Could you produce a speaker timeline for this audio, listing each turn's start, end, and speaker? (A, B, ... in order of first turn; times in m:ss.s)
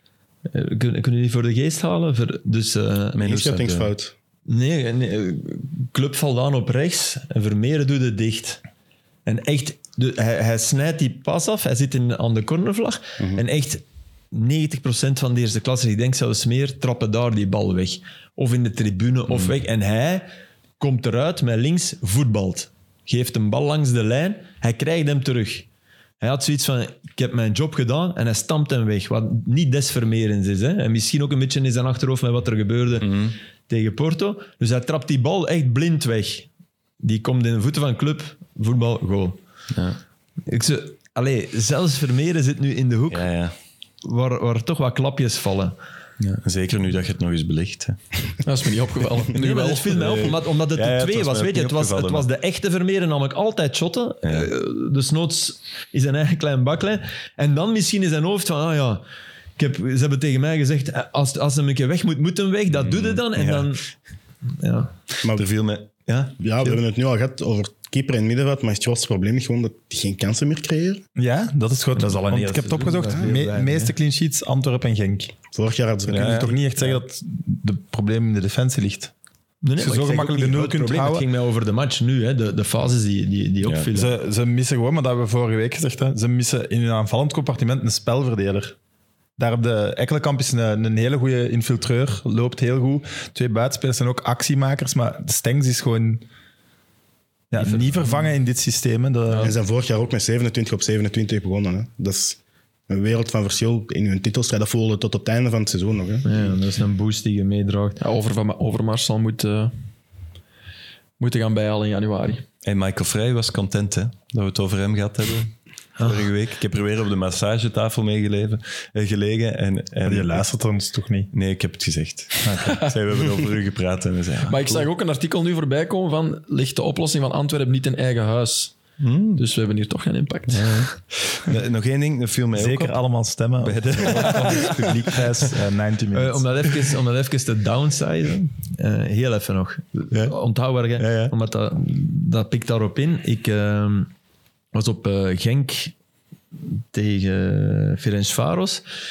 0:00.5-0:03.6 A
0:03.2-0:03.9 B
0:03.2-0:04.1 C
0:04.4-0:08.6 A
0:09.2-0:20.2 A
0:20.8-0:25.7 A
0:26.2-0:36.5 A
0:33.0-0:33.3 B
0:37.0-0:39.4 A
0:40.4-0:43.3 A
0:43.1-0:43.5 B
0:44.0-0:45.8 A
0:46.2-0:48.2 B
0:48.4-0:50.3 D
0:49.3-0:59.0 A
0:50.0-0:52.3 B
0:54.2-0:54.5 B
0:59.6-1:03.8 A
1:02.7-1:03.7 B
1:04.4-1:04.9 A
1:05.2-1:06.8 B
1:06.4-1:11.0 C
1:11.2-1:15.3 E
1:12.0-1:13.9 A
1:15.5-1:16.6 C
1:16.1-1:16.5 B
1:16.1-1:19.1 E
1:19.6-1:24.1 A
1:19.8-1:21.3 E
1:23.9-1:28.7 E
1:29.4-1:36.2 E
1:37.5-1:39.5 E
1:37.5-1:38.2 A
1:39.4-1:42.4 C
1:42.9-1:46.2 C
1:46.2-1:48.0 A
1:48.0-1:49.7 D
1:51.2-1:52.4 D
1:52.6-2:00.4 B
1:56.0-1:56.3 A
2:00.0-2:01.3 E
2:01.3-2:04.9 B
2:02.4-2:02.8 E
2:02.6-2:02.9 D
2:04.4-2:08.8 D
2:09.0-2:09.4 B
2:09.4-2:10.9 D
2:10.5-2:13.0 B
2:12.5-2:16.5 E
2:13.6-2:15.6 B
2:16.1-2:24.1 A
2:20.1-2:20.4 B
2:21.0-2:21.3 B
2:24.7-2:25.9 A
2:26.6-2:28.8 A